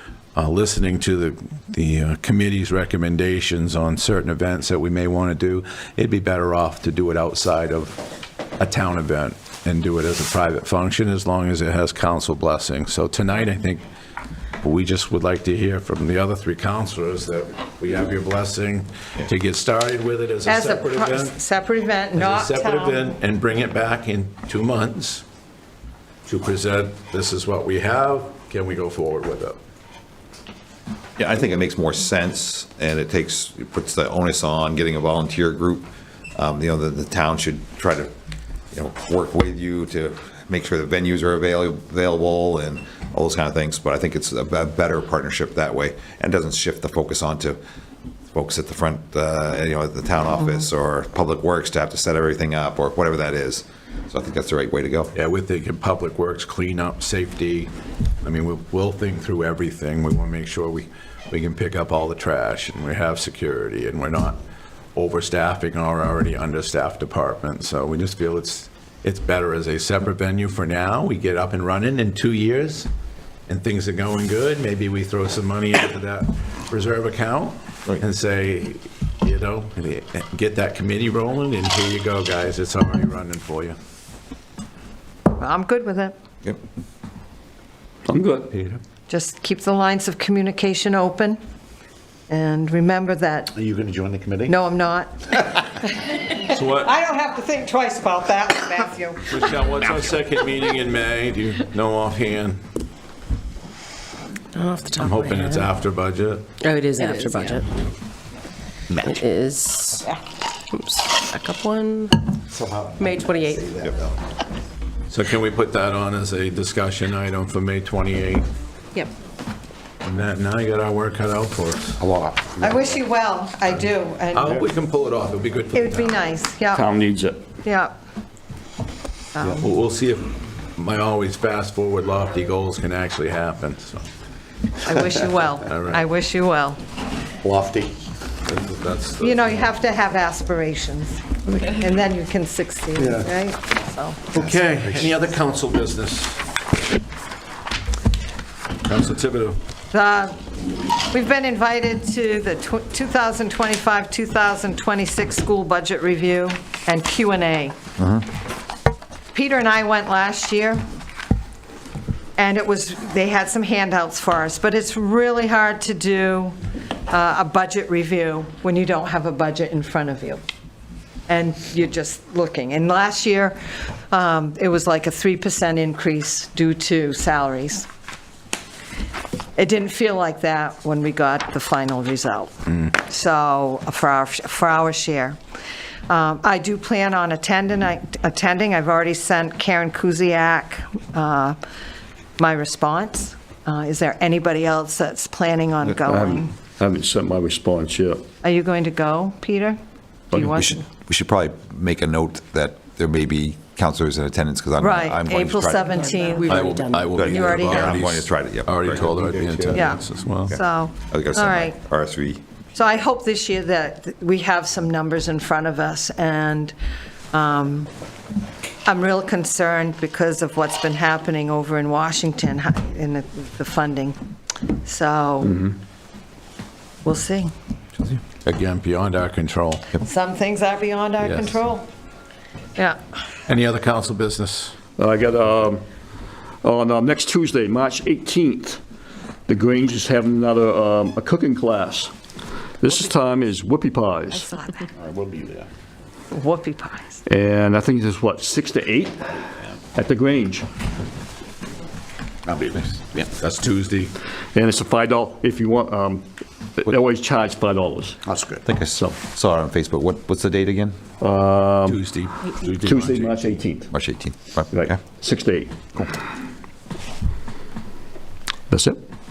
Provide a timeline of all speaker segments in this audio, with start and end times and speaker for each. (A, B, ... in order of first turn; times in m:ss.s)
0:00.4-0:08.0 A
0:08.6-0:13.8 A
0:14.6-0:21.3 A
0:20.5-0:23.2 B
0:22.2-0:25.2 A
0:26.3-0:29.6 A
0:31.2-0:38.1 C
0:38.7-0:47.6 C
0:48.3-0:55.1 C
0:55.1-1:04.4 A
1:05.0-1:12.9 A
1:13.5-1:23.8 A
1:25.4-1:26.2 B
1:28.1-1:28.5 D
1:28.5-1:28.8 A
1:29.1-1:31.4 B
1:32.3-1:33.5 B
1:33.6-1:34.6 E
1:34.5-1:39.2 B
1:36.4-1:36.9 A
1:39.2-1:42.6 A
1:44.5-1:45.7 F
1:45.0-1:46.5 A
1:46.6-1:47.7 F
1:47.0-1:47.6 B
1:48.9-1:49.2 A
1:49.0-1:50.1 F
1:50.7-1:52.3 F
1:52.5-1:54.1 E
1:53.0-1:53.8 F
1:55.1-1:58.5 A
2:00.0-2:02.0 A
2:02.1-2:02.5 E
2:02.6-2:04.6 B
2:04.3-2:06.2 A
2:05.7-2:06.9 B
2:06.7-2:07.4 D
2:07.6-2:07.9 B
2:09.3-2:09.7 B
2:09.5-2:14.0 A
2:14.8-2:16.8 B
2:15.6-2:16.0 A
2:17.4-2:18.0 E
2:18.4-2:19.7 A
2:19.2-2:24.6 B
2:23.0-2:23.3 E
2:24.3-2:26.4 A
2:28.8-2:29.6 A
2:29.9-2:30.4 B
2:31.1-2:37.8 B
2:38.0-2:38.2 C
2:39.3-2:40.8 B
2:42.4-2:46.6 B
2:47.1-2:50.4 B
2:51.3-2:53.6 B
2:54.1-2:57.9 B
2:59.6-3:05.4 B
3:06.1-3:11.6 B
3:12.4-3:16.5 B
3:16.0-3:18.2 D
3:18.4-3:19.8 B
3:20.3-3:20.8 B
3:20.4-3:26.2 C
3:24.8-3:26.8 B
3:26.1-3:27.1 F
3:26.5-3:30.6 A
3:27.1-3:29.8 C
3:27.3-3:27.8 B
3:29.7-3:31.8 B
3:31.1-3:32.4 C
3:32.8-3:36.8 B
3:37.3-3:37.9 B
3:38.9-3:44.2 B
3:44.8-3:45.6 B
3:47.0-3:47.5 B
3:48.4-3:49.9 A
3:50.0-3:51.9 B
3:51.2-3:51.6 A
3:53.5-3:54.8 A
3:55.0-3:55.8 D
3:56.6-3:58.8 D
3:59.5-4:02.1 D
4:02.8-4:04.5 D
4:04.3-4:04.9 B
4:05.0-4:05.7 E
4:06.3-4:07.2 B
4:07.3-4:09.4 D
4:09.9-4:10.7 D
4:12.5-4:13.0 E
4:13.1-4:14.1 A
4:14.5-4:16.2 D
4:16.8-4:18.2 D
4:18.3-4:18.6 E
4:18.6-4:21.0 C
4:21.2-4:22.0 D
4:21.8-4:23.4 A
4:22.8-4:23.9 D
4:23.9-4:25.0 C
4:24.7-4:25.8 D
4:28.7-4:29.0 D